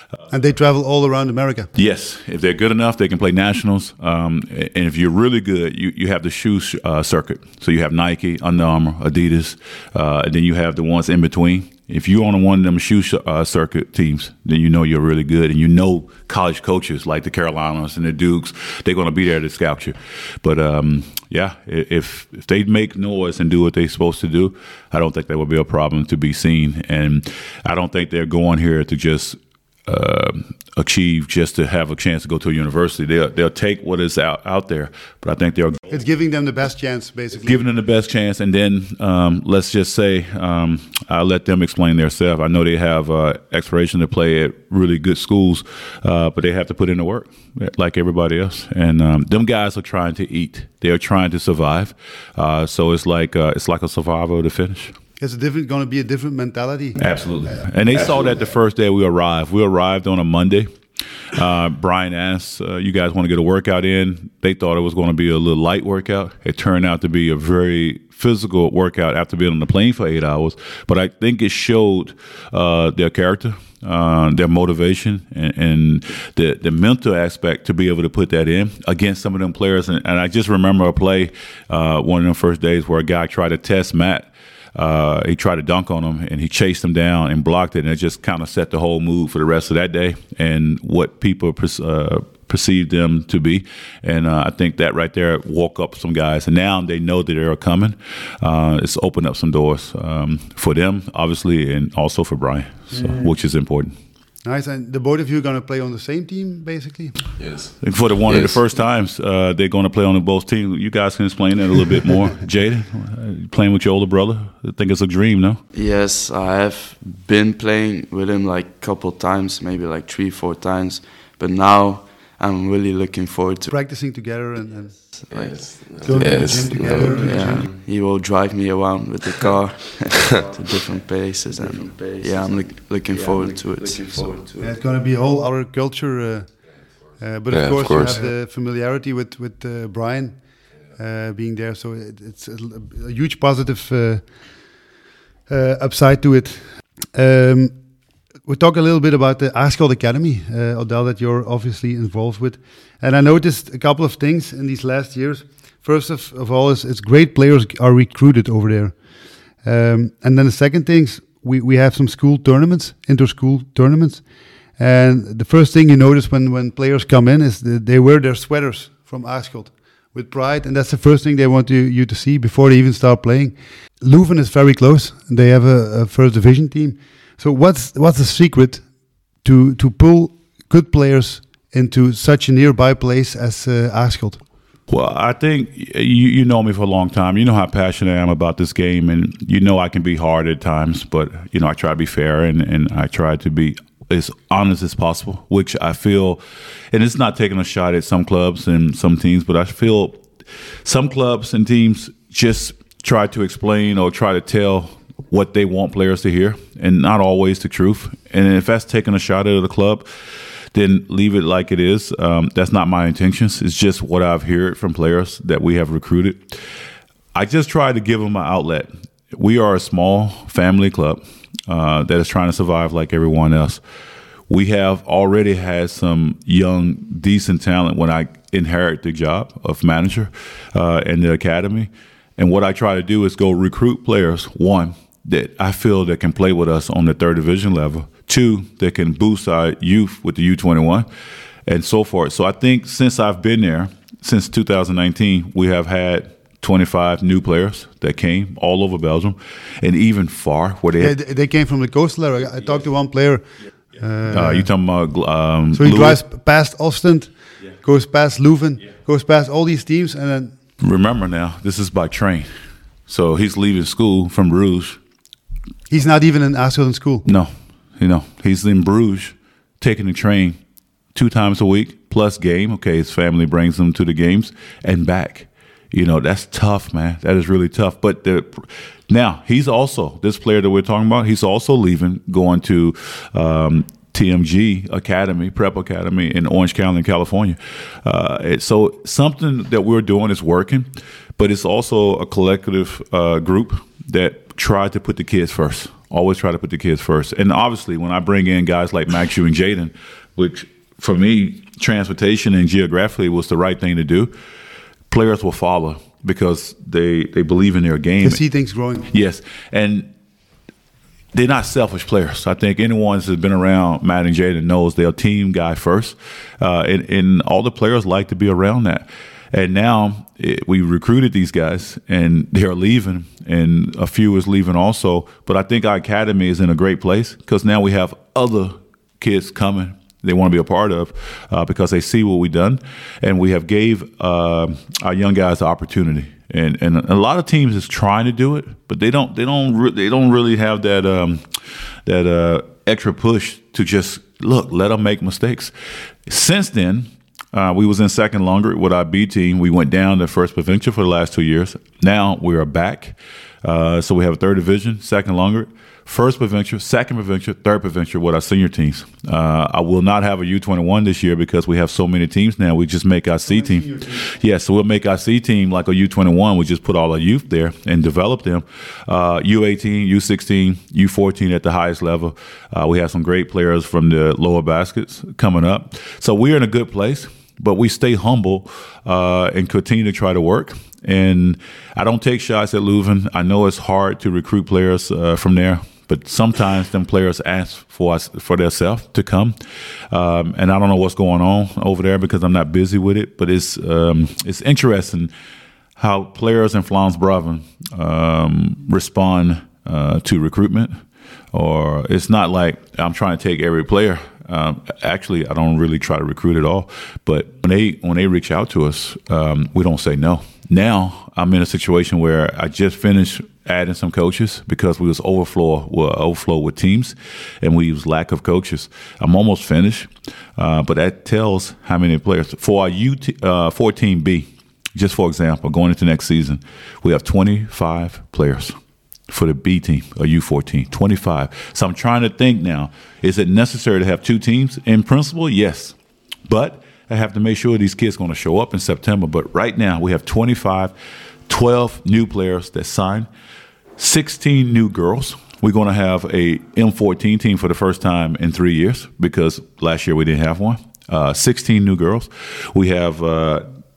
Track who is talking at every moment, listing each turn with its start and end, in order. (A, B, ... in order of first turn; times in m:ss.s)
0:00.3-0:01.7 A
0:01.7-0:35.8 B
0:35.9-0:37.6 A
0:37.3-0:54.9 B
0:55.2-0:57.6 A
0:57.0-1:00.7 B
1:01.3-1:43.9 B
1:42.9-1:43.3 A
1:44.4-1:47.2 A
1:47.4-1:48.6 C
1:47.8-1:55.6 B
1:55.7-2:03.7 D
2:03.7-2:05.0 A
2:05.2-2:14.6 D
2:05.3-2:07.7 C
2:06.0-2:07.7 A
2:14.6-2:20.4 A
2:17.5-2:18.2 C
2:20.9-2:24.3 A
2:25.5-2:27.8 A
2:28.4-2:39.0 A
2:39.6-2:44.2 A
2:44.8-2:58.8 A
2:59.4-3:04.4 A
3:04.9-3:16.4 B
3:16.9-3:20.2 B
3:20.8-3:30.1 B
3:30.7-3:36.6 B
3:37.3-3:43.8 B
3:44.5-4:01.1 B
4:01.7-4:11.2 B
4:11.0-4:14.7 A
4:14.2-4:16.2 B
4:15.7-4:20.6 A
4:20.8-4:22.5 B
4:23.1-4:25.0 B
4:25.9-4:27.2 A
4:27.2-4:30.6 B
4:31.1-5:04.3 B
5:05.1-5:08.4 B
5:08.2-5:09.1 A
5:09.1-5:10.1 B
5:11.3-5:41.5 B
5:42.0-5:45.7 B
5:46.2-6:29.6 B
6:03.4-6:04.2 A
6:30.1-6:35.3 B
6:36.0-6:41.0 B
6:41.5-7:08.8 B
7:09.3-7:20.9 B
7:21.5-7:23.3 B
7:24.0-7:33.6 B